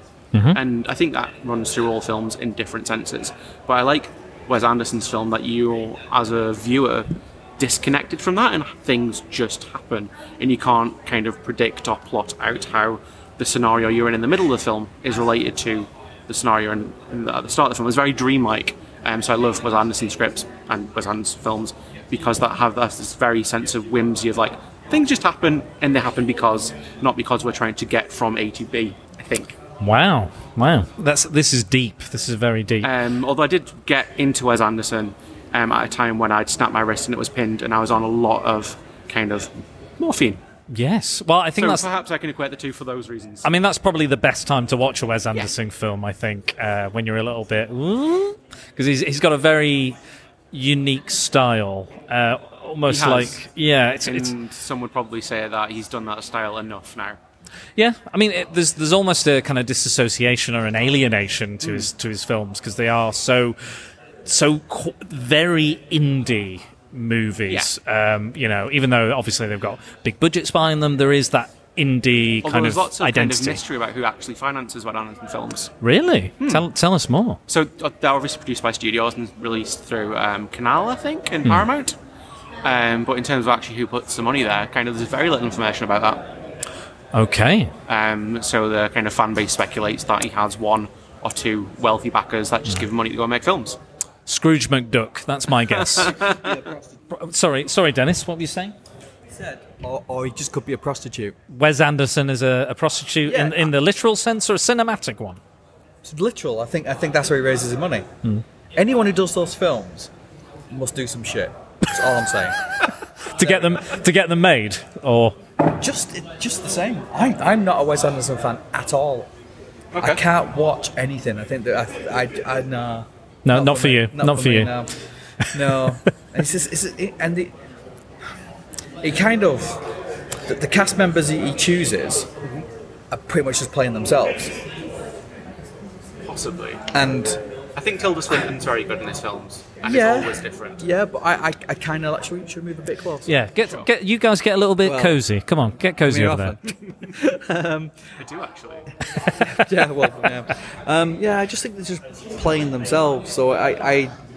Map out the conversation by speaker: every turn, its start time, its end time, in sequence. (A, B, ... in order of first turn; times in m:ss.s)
0:00.3-0:00.6 A
0:00.5-0:29.6 B
0:29.8-0:32.9 A
0:32.8-0:40.4 B
0:40.7-0:41.9 A
0:41.6-0:43.5 B
0:43.4-0:50.0 A
0:50.5-0:54.3 A
0:52.8-0:53.4 B
0:54.0-0:57.2 B
0:57.8-1:03.6 A
1:01.6-1:01.9 B
1:04.2-1:13.6 A
1:12.4-1:15.7 B
1:15.8-1:17.4 A
1:16.4-1:16.6 B
1:17.5-1:22.0 B
1:22.6-1:26.3 B
1:27.1-1:27.7 A
1:27.9-1:33.8 B
1:34.2-1:36.2 A
1:35.9-1:36.3 B
1:36.2-1:37.0 C
1:37.1-1:38.7 A
1:39.3-1:41.4 C
1:41.5-1:45.4 A
1:43.2-1:43.7 C
1:46.0-1:48.1 C
1:48.7-1:50.1 C
1:50.7-1:52.8 C
1:53.3-1:55.4 A
1:53.4-1:54.0 C
1:55.6-1:59.3 C
1:59.9-2:00.2 B
2:00.0-2:04.9 C
2:03.4-2:04.7 A
2:05.5-2:07.5 C
2:05.6-2:05.9 A
2:09.0-2:09.9 C
2:10.4-2:12.3 C
2:13.1-2:14.5 C
2:16.2-2:16.8 B
2:16.9-2:17.4 C
2:17.7-2:20.8 B
2:19.8-2:23.4 C
2:23.3-2:26.5 A
2:24.8-2:25.2 C
2:26.0-2:27.9 C
2:28.2-2:28.9 B
2:29.4-2:34.1 C